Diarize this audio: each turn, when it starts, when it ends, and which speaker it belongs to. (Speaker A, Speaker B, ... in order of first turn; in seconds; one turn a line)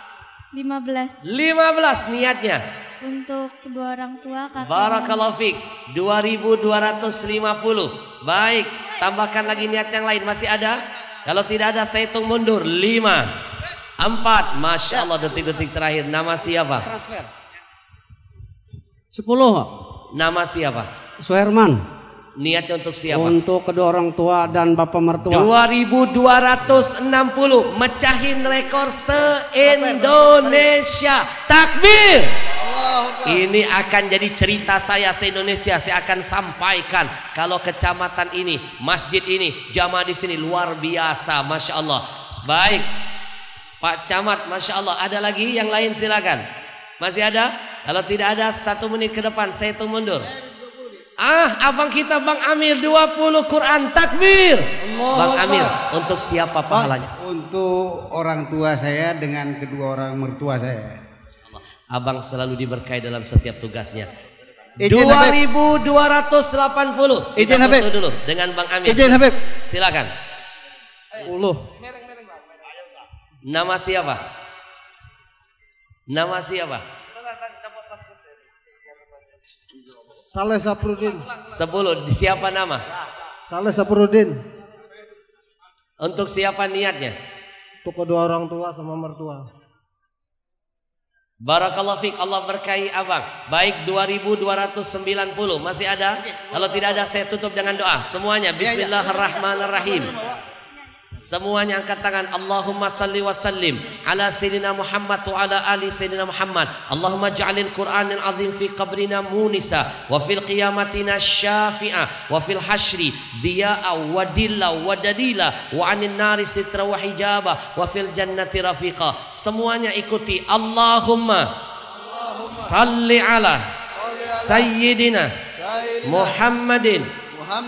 Speaker A: 0.5-1.2
Speaker B: 1.2-2.6
Speaker A: 3.0-5.3
Speaker B: 4.6-13.2
Speaker B: 14.0-16.9
Speaker C: 19.1-19.7
Speaker B: 20.2-20.9
Speaker C: 21.2-21.7
Speaker B: 22.4-23.4
Speaker C: 23.2-25.4
Speaker B: 25.3-32.3
Speaker B: 33.2-42.9
Speaker B: 43.8-46.4
Speaker B: 47.0-50.3
Speaker B: 51.2-57.1
Speaker D: 56.8-60.9
Speaker B: 61.9-64.1
Speaker B: 64.8-70.1
Speaker C: 64.9-65.3
Speaker C: 67.4-67.8
Speaker C: 68.8-69.3
Speaker E: 71.2-71.6
Speaker B: 73.5-74.2
Speaker B: 76.1-76.8
Speaker E: 80.3-81.3
Speaker B: 81.5-82.8
Speaker E: 83.5-84.4
Speaker B: 86.0-87.1
Speaker E: 87.8-89.4
Speaker B: 91.4-100.1
Speaker B: 101.2-121.5
Speaker B: 122.4-123.6
Speaker B: 124.3-125.3
Speaker B: 126.0-127.1